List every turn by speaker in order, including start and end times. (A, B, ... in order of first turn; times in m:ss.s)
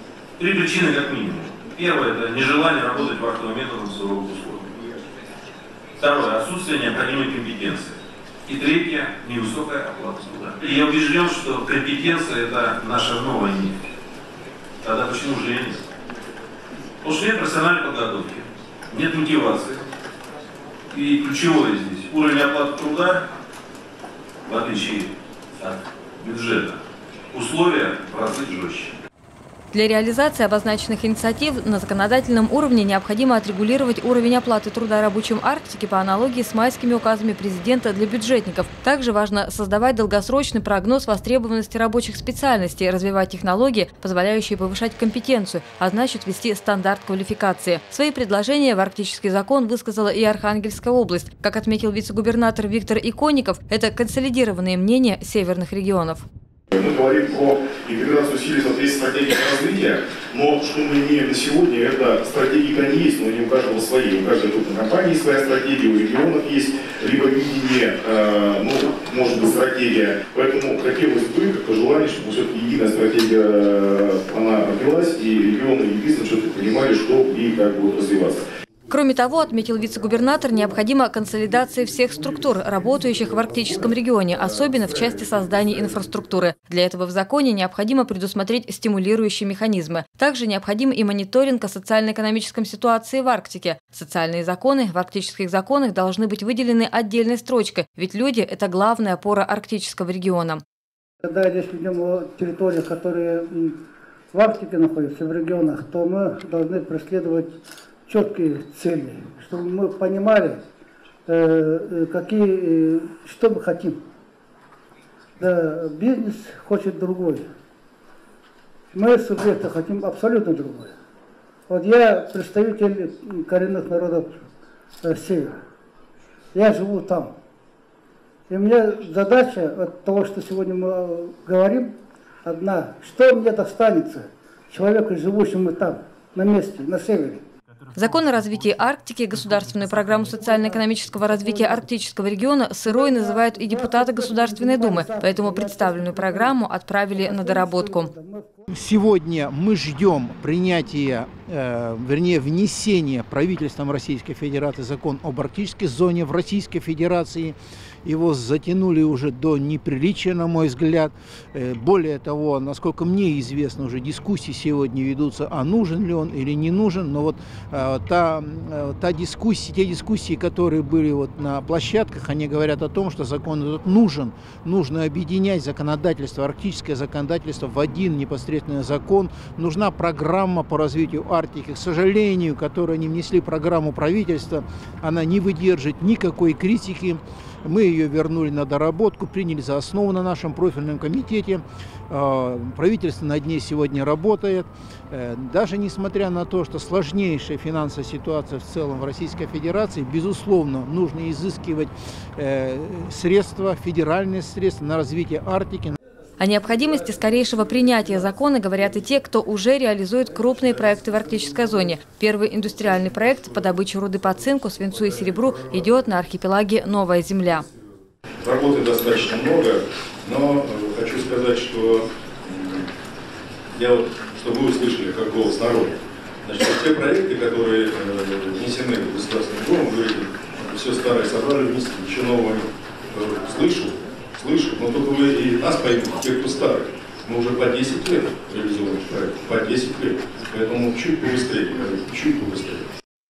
0:00.4-0:05.0 A
0:06.0-0:13.8 A
0:14.8-0:15.8 A
0:17.0-0:19.9 A
0:20.9-0:23.2 A
0:24.5-0:26.8 A
0:27.3-0:28.9 A
0:29.7-0:56.2 B
0:56.7-1:18.4 C
1:18.9-1:40.6 B
1:41.2-1:43.8 D
1:44.3-1:50.6 D
1:51.3-1:54.0 D
1:55.4-1:57.4 D
1:58.9-2:00.9 D
2:01.7-2:04.4 D
2:05.0-2:05.6 D
2:06.5-2:07.3 D
2:08.5-2:11.9 D
2:12.4-2:17.4 D
2:17.9-2:28.1 B
2:20.4-2:21.9 D
2:22.9-2:28.7 D
2:28.7-3:26.0 E
3:26.4-3:37.7 B
3:34.9-3:35.9 F
3:38.4-3:42.9 F
3:43.7-4:02.9 F